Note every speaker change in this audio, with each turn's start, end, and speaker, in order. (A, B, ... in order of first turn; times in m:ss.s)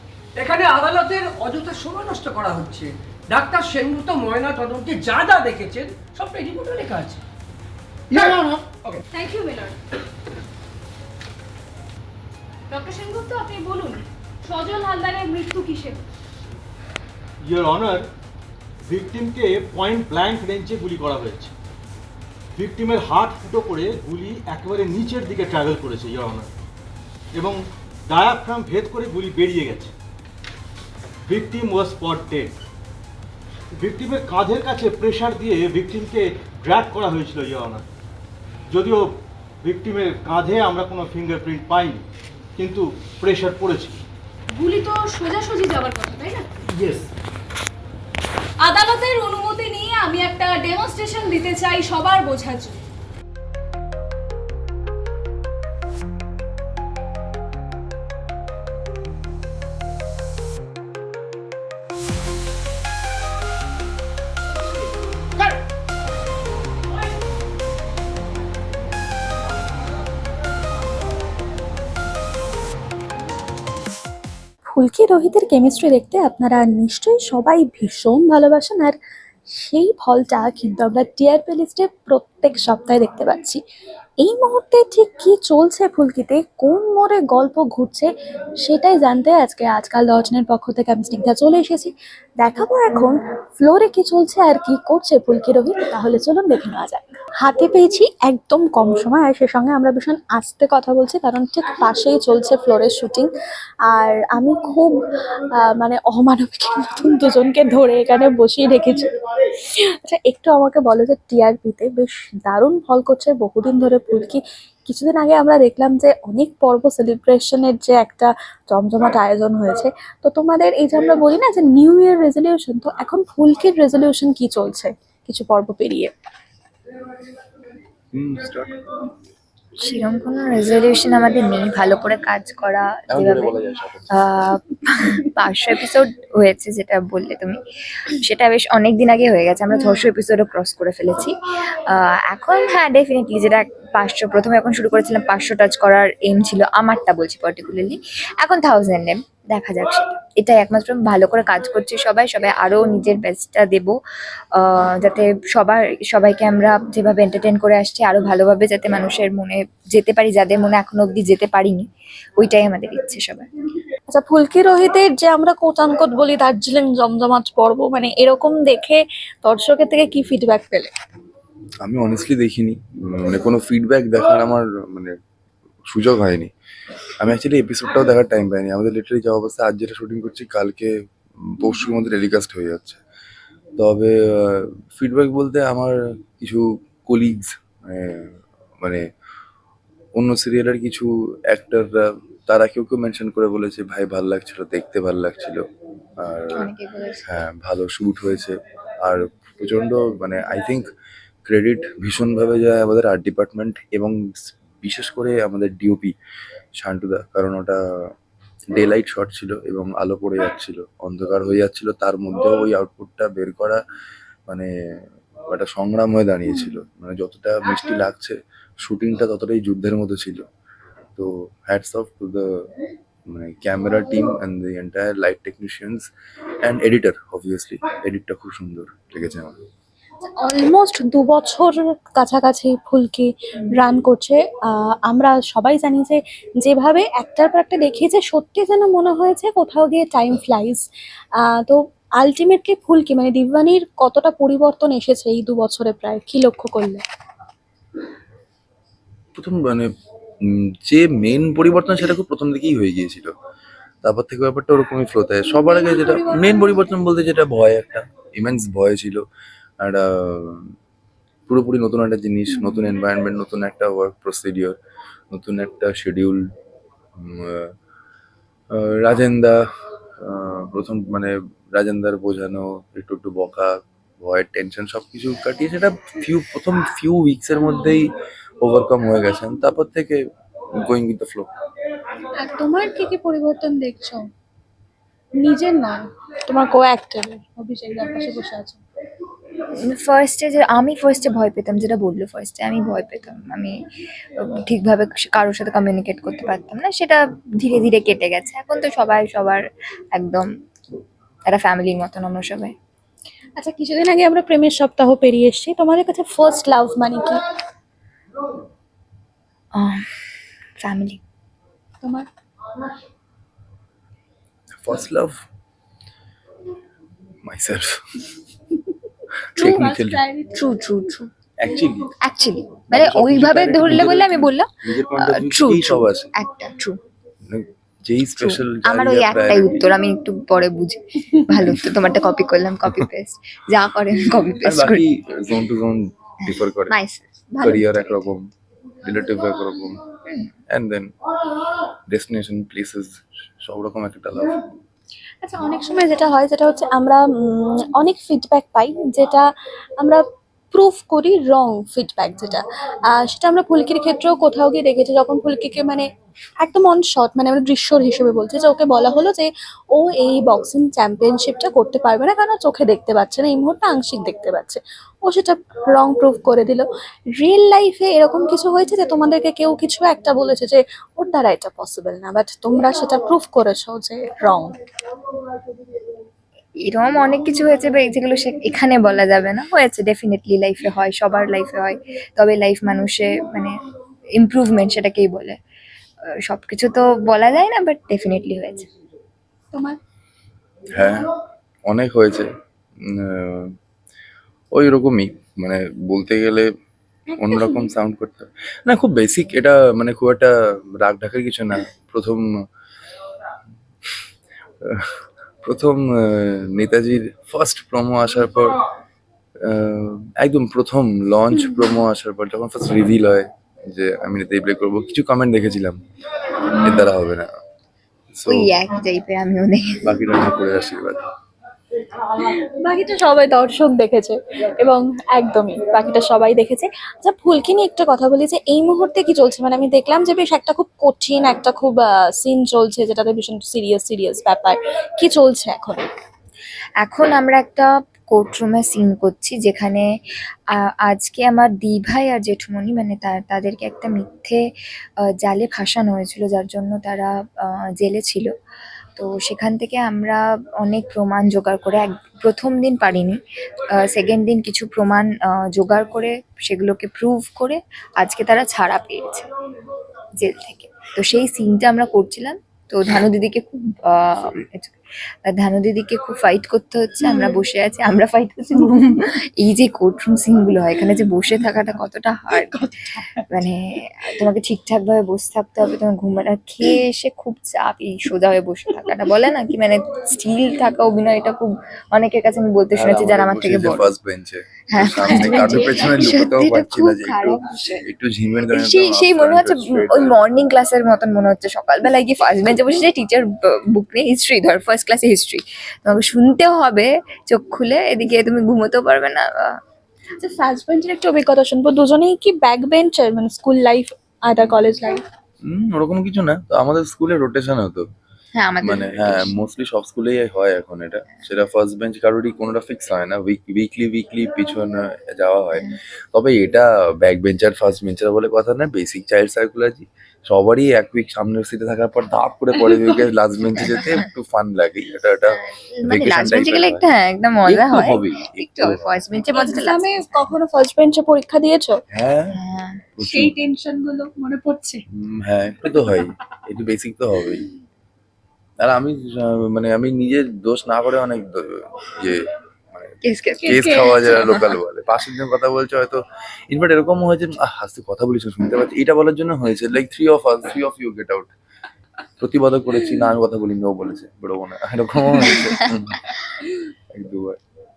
0:00.4-0:07.2 A
0:08.1-0:09.0 A
0:09.1-0:09.8 B
0:12.7-0:16.0 B
0:17.4-0:18.1 C
0:18.8-0:21.5 C
0:22.6-0:26.5 C
0:27.3-0:29.9 C
0:31.3-0:32.6 C
0:33.8-0:37.8 C
0:38.7-0:42.0 C
0:42.6-0:44.0 C
0:44.5-0:46.5 B
0:46.7-0:47.1 C
0:48.6-0:52.8 B
1:14.7-1:23.6 D
1:24.2-1:28.1 D
1:28.6-1:43.3 D
1:43.9-1:45.0 D
1:45.6-2:06.1 D
2:08.1-2:08.8 E
2:09.8-2:13.6 F
2:13.1-2:14.2 E
2:14.1-2:17.6 F
2:18.1-2:34.0 F
2:34.6-2:41.8 F
2:42.4-2:43.5 F
2:44.1-2:50.9 D
2:51.8-2:55.2 E
2:55.9-2:56.5 E
2:57.2-3:03.0 E
3:03.8-3:09.0 E
3:10.2-3:15.6 E
3:16.2-3:16.7 E
3:16.6-3:17.3 F
3:17.3-3:20.9 E
3:21.5-3:26.1 E
3:26.8-3:28.1 E
3:28.7-3:33.8 E
3:35.5-3:40.4 E
3:41.2-3:42.7 E
3:43.3-3:46.1 E
3:46.6-3:49.6 E
3:50.4-4:00.8 D
4:01.4-4:07.0 D
4:09.4-4:09.9 E
4:10.4-4:13.3 E
4:14.0-4:19.2 E
4:15.5-4:16.8 D
4:19.8-4:20.7 E
4:21.5-4:24.8 E
4:25.3-4:26.5 E
4:27.2-4:27.7 E
4:28.7-4:29.6 E
4:30.2-4:40.2 E
4:40.8-4:41.5 E
4:42.3-4:44.2 D
4:45.4-4:48.8 D
4:49.9-4:53.8 F
4:54.4-4:59.6 F
5:00.2-5:00.5 F
5:01.5-5:02.7 F
5:03.6-5:07.4 D
5:09.8-5:10.0 F
5:10.8-5:11.2 F
5:12.0-5:12.3 D
5:14.8-5:15.4 E
5:17.4-5:18.2 E
5:19.5-5:20.2 E
5:19.6-5:20.6 D
5:20.6-5:21.3 F
5:21.6-5:22.1 E
5:22.2-5:27.0 F
5:22.9-5:26.3 E
5:27.5-5:29.9 E
5:28.4-5:35.0 F
5:34.6-5:37.0 E
5:36.5-5:38.3 F
5:37.6-5:38.5 E
5:39.0-5:40.1 E
5:40.7-5:41.1 E
5:42.1-5:44.6 E
5:45.4-5:56.1 D
5:56.6-6:14.8 D
6:16.8-6:23.7 F
6:24.4-6:25.6 F
6:26.5-6:28.9 F
6:29.7-6:30.0 D
6:30.9-6:31.3 E
6:31.9-6:32.5 E
6:33.0-6:33.7 E
6:34.7-6:36.7 E
6:37.3-6:37.9 D
6:37.4-6:42.5 E
6:44.8-6:48.8 E
6:49.7-6:56.0 E
6:56.8-6:57.5 E
6:58.4-6:58.7 E
6:58.5-7:00.1 F
7:00.0-7:01.2 E
7:02.2-7:16.1 D
7:17.0-7:20.1 F
7:20.8-7:24.6 F
7:25.4-7:28.5 F
7:29.2-7:33.4 F
7:33.9-7:39.5 F
7:40.4-7:45.0 F
7:45.5-7:52.7 F
7:52.5-7:53.6 D
7:53.5-8:04.1 F
8:02.9-8:10.4 E
8:04.9-8:08.1 F
8:08.6-8:19.8 F
8:20.4-8:25.2 D
8:25.6-8:28.1 E
8:28.6-8:29.6 F
8:28.8-8:47.0 E
8:45.7-8:50.5 F
8:47.7-8:49.1 E
8:49.5-8:52.0 D
8:52.1-8:52.6 E
8:52.5-8:53.1 F
8:53.2-8:53.6 E
8:53.2-8:55.0 D
8:55.1-8:57.7 E
8:58.8-9:02.4 E
9:02.9-9:11.5 E
9:03.2-9:03.7 F
9:03.6-9:04.4 D
9:12.4-9:16.4 E
9:17.2-9:17.6 E